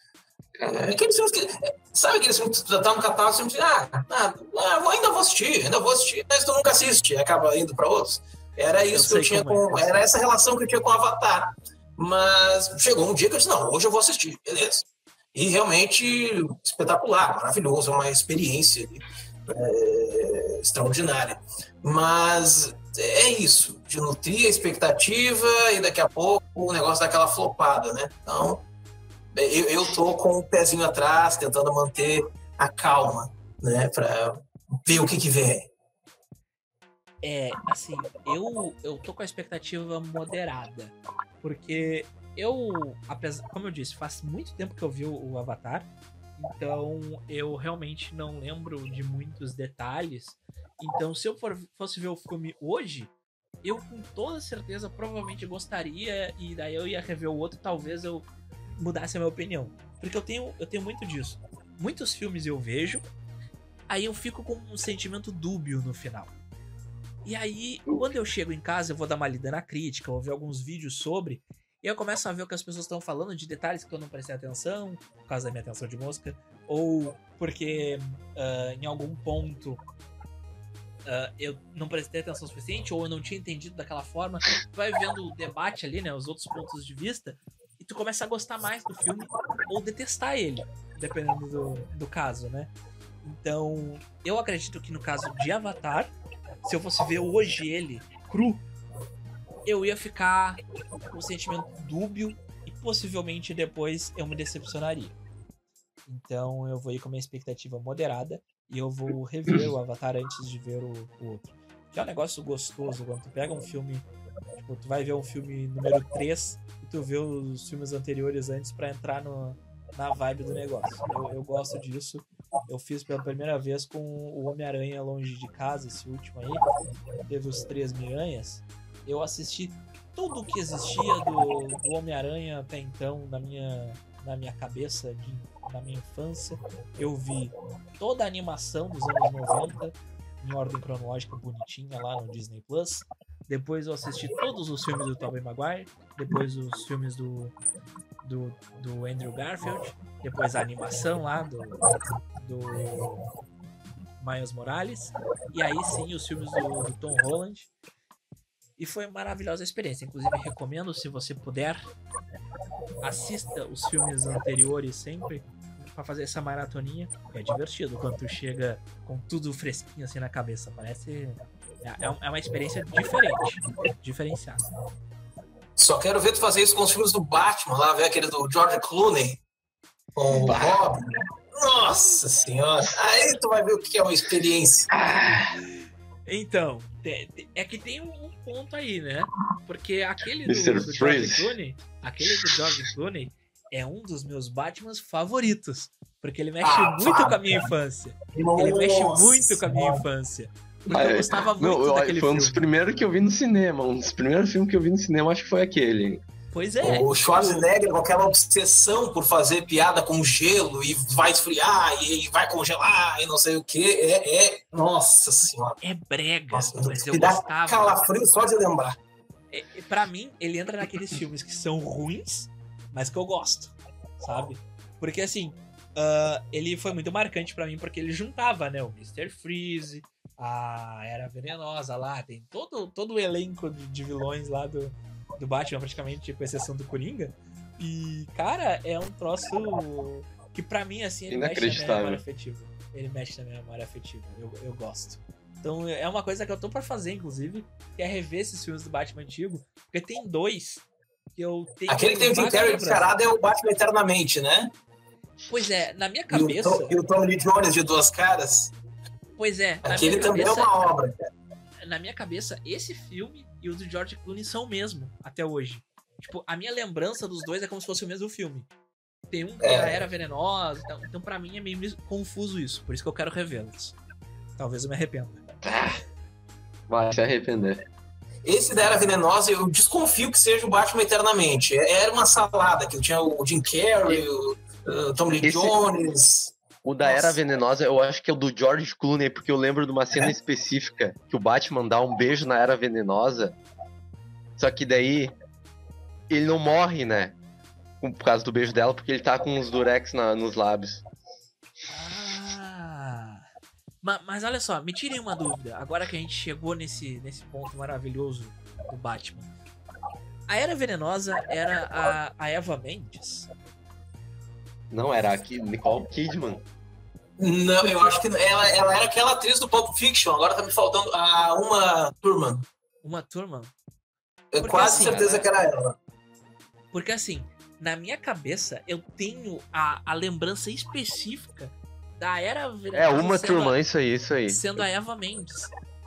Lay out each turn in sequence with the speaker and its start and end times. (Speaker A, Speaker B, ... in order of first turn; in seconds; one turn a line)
Speaker A: 0.6-1.0
Speaker B: 0.7-28.6
Speaker C: 8.9-10.0
Speaker B: 29.3-35.7
Speaker C: 37.2-53.1
Speaker C: 53.6-58.3
Speaker C: 58.8-63.0
Speaker C: 63.9-66.3
Speaker C: 67.2-79.8
Speaker A: 67.9-68.1
Speaker C: 81.1-92.7
Speaker C: 93.2-96.1
Speaker C: 96.6-98.7
Speaker C: 99.7-100.6
Speaker C: 101.1-105.2
Speaker C: 106.1-114.1
Speaker C: 114.6-126.6
Speaker C: 127.3-147.6
Speaker C: 148.2-151.8
Speaker C: 152.4-153.2
Speaker C: 154.2-157.7
Speaker C: 158.8-161.8
Speaker C: 163.0-174.6
Speaker B: 175.8-179.4
Speaker B: 180.2-184.9
Speaker A: 180.4-180.8
Speaker A: 184.9-185.5
Speaker C: 186.3-202.7
Speaker A: 190.5-191.5
Speaker B: 196.6-197.7
Speaker B: 198.3-200.0
Speaker A: 200.9-206.2
Speaker C: 206.5-207.7
Speaker B: 206.8-215.8
Speaker C: 215.8-218.0
Speaker B: 216.5-219.0
Speaker C: 219.5-253.1
Speaker A: 241.3-242.2
Speaker B: 251.9-254.7
Speaker C: 255.5-257.0
Speaker B: 256.3-258.7
Speaker C: 259.4-260.7
Speaker B: 259.8-261.2
Speaker C: 261.8-268.7
Speaker C: 269.3-274.0
Speaker B: 269.6-270.0
Speaker C: 274.6-275.4
Speaker A: 275.6-276.0
Speaker A: 276.9-277.8
Speaker B: 278.4-287.4
Speaker A: 285.4-285.8
Speaker A: 286.8-293.6
Speaker A: 294.6-295.3
Speaker A: 296.3-297.4
Speaker A: 298.0-301.0
Speaker C: 301.9-303.4
Speaker C: 304.0-309.5
Speaker C: 310.5-313.5
Speaker A: 314.9-316.6
Speaker B: 317.4-322.6
Speaker C: 317.8-318.2
Speaker C: 323.0-323.7
Speaker B: 324.5-326.0
Speaker C: 324.6-325.5
Speaker C: 326.9-333.8
Speaker A: 332.9-334.8
Speaker C: 334.5-335.7